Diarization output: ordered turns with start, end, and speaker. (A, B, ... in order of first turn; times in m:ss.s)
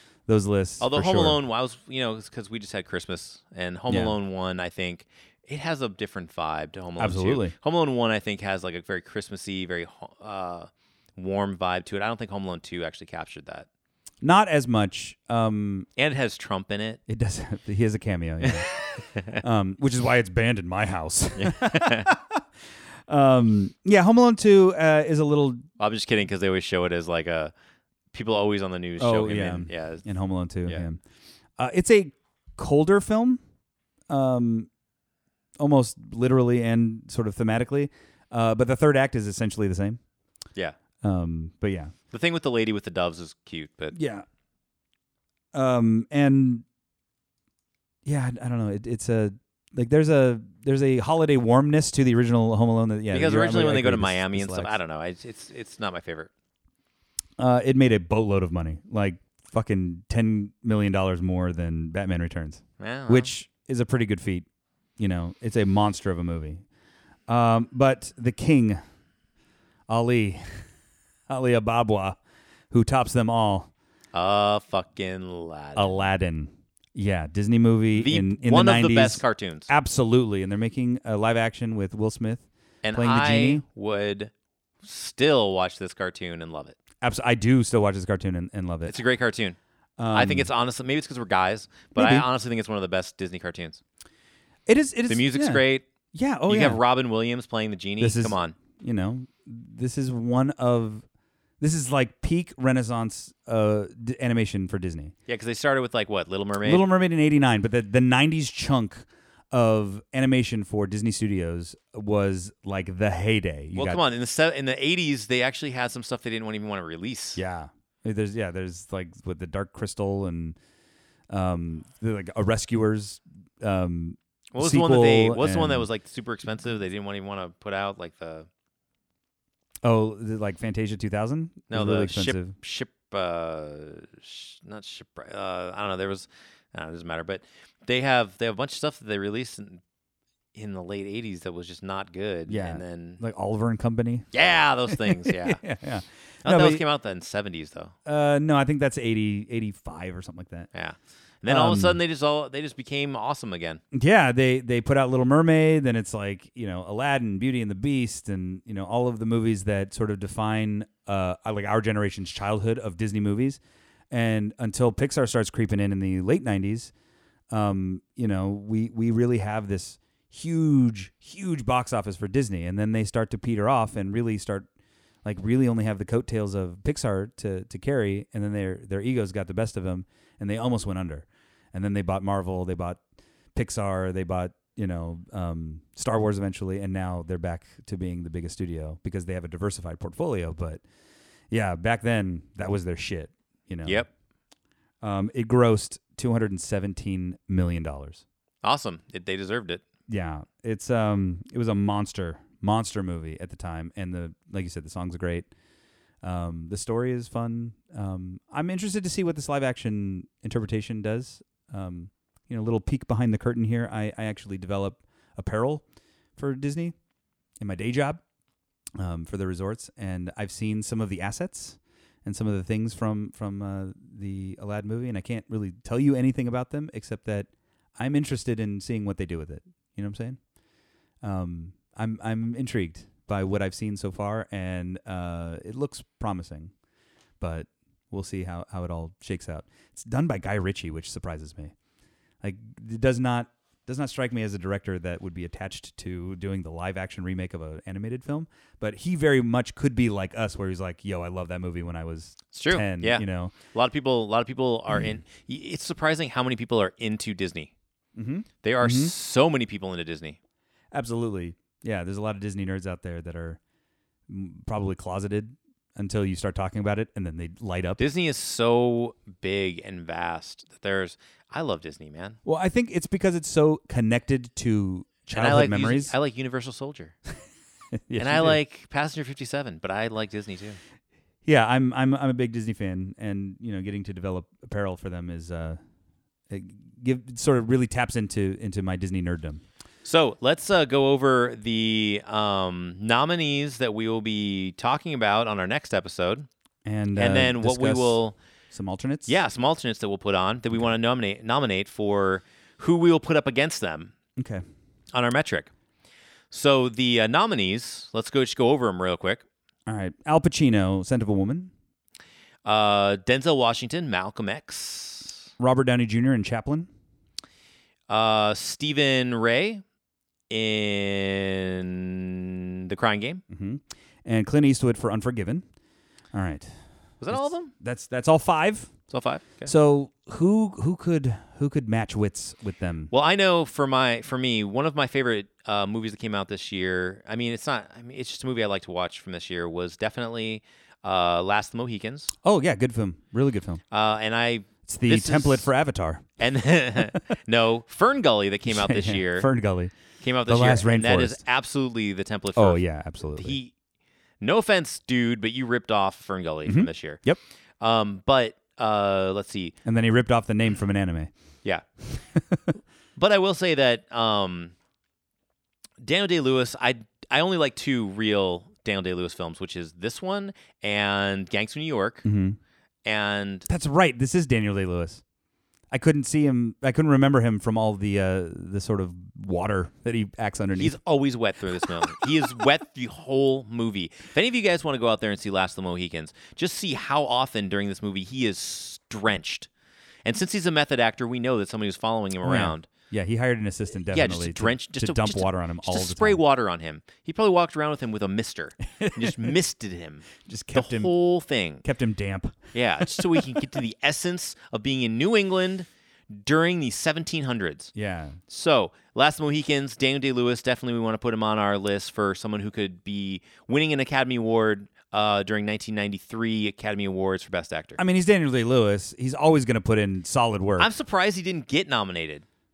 0:00.3-0:01.4 A
0:00.8-0:13.7 B
0:03.9-0:04.2 A
0:07.0-0:07.5 A
0:14.2-0:15.9 A
0:16.0-0:17.0 B
0:17.1-0:18.7 A
0:18.4-0:19.4 B
0:19.4-0:22.4 A
0:21.4-0:22.1 B
0:23.1-0:25.6 A
0:25.8-0:27.5 B
0:28.1-0:30.0 B
0:29.0-0:31.0 A
0:31.6-0:33.4 A
0:34.1-0:34.7 A
0:35.6-0:40.0 A
0:41.0-0:41.9 A
0:42.1-0:44.0 B
0:43.9-0:44.2 A
0:45.5-0:46.6 A
0:48.0-0:54.8 A
0:53.1-0:56.3 B
0:57.4-1:04.5 A
1:02.8-1:03.3 B
1:05.0-1:06.6 A
1:07.3-1:08.8 A
1:09.9-1:10.7 A
1:11.3-1:12.2 A
1:12.7-1:13.7 A
1:14.1-1:16.0 B
1:15.8-1:23.6 A
1:17.9-1:19.7 B
1:22.8-1:24.3 B
1:24.8-1:26.8 B
1:27.0-1:29.0 A
1:28.9-1:29.6 B
1:30.0-1:30.5 A
1:30.1-1:33.8 B
1:32.0-1:32.3 A
1:34.7-1:36.8 A
1:35.1-1:35.9 B
1:36.5-1:38.6 B
1:38.0-1:41.0 A
1:41.6-1:45.1 A
1:45.3-1:46.8 B
1:46.6-1:54.0 A
1:53.7-1:57.4 B
1:57.4-2:00.6 A
2:01.3-2:05.9 A
2:04.5-2:08.5 B
2:09.8-2:12.6 A
2:11.7-2:19.8 B
2:20.5-2:23.2 B
2:22.5-2:24.3 A
2:24.3-2:25.6 B
2:24.9-2:26.8 A
2:26.4-2:28.0 B
2:28.0-2:30.7 A
2:30.7-2:33.8 B
2:31.5-2:32.0 A
2:33.9-2:46.9 A
2:47.5-2:54.7 A
2:55.2-3:03.0 A
3:03.6-3:10.8 A
3:11.5-3:14.1 A
3:15.0-3:18.2 A
3:18.6-3:19.8 B
3:20.1-3:25.5 A
3:26.2-3:35.8 A
3:36.4-3:37.0 A
3:37.6-3:38.2 A
3:39.0-3:50.4 A
3:51.2-3:56.7 A
3:57.4-4:01.7 A
4:02.4-4:13.5 A
4:12.5-4:17.7 B
4:18.2-4:19.1 A
4:18.6-4:20.4 B
4:20.9-4:23.6 A
4:24.3-4:28.0 A
4:28.0-4:32.4 B
4:32.4-4:36.2 A
4:35.3-4:37.2 B
4:38.0-4:38.6 A
4:38.2-4:40.8 B
4:41.4-4:45.8 A
4:46.5-4:49.6 A
4:50.0-4:56.5 B
4:56.8-4:58.2 A
4:57.2-4:58.4 B
4:58.7-4:59.4 A
4:59.3-5:04.1 B
5:04.4-5:04.6 A
5:05.1-5:05.7 B
5:06.5-5:09.4 B
5:09.9-5:11.7 A
5:12.6-5:15.4 B
5:15.6-5:16.9 A
5:18.1-5:19.8 B
5:20.5-5:23.4 B
5:23.5-5:25.6 A
5:26.3-5:26.7 A
5:27.2-5:27.7 B
5:27.3-5:28.9 A
5:29.1-5:29.7 B
5:29.7-5:33.1 A
5:33.1-5:42.3 B
5:42.4-5:43.8 A
5:43.9-5:45.7 B
5:44.9-5:46.3 A
5:46.4-5:49.5 B
5:48.7-5:49.9 A
5:50.2-5:52.8 B
5:50.5-5:51.4 A
5:52.6-5:53.6 A
5:53.4-5:53.7 B
5:54.4-5:57.2 B
5:56.7-5:57.4 A
5:57.8-5:59.8 B
5:59.8-6:01.3 A
6:02.1-6:02.7 A
6:03.2-6:04.7 B
6:06.0-6:12.2 B
6:12.2-6:12.6 A
6:13.0-6:13.7 B
6:13.7-6:15.2 A
6:15.9-6:21.0 A
6:20.8-6:29.7 B
6:30.2-6:32.9 B
6:32.4-6:36.4 A
6:34.1-6:41.8 B
6:39.0-6:39.5 A
6:40.4-6:41.1 A
6:41.8-6:43.8 A
6:42.7-6:47.9 B
6:48.0-6:48.4 A
6:48.5-6:58.0 B
6:58.0-7:00.9 A
7:00.8-7:02.4 B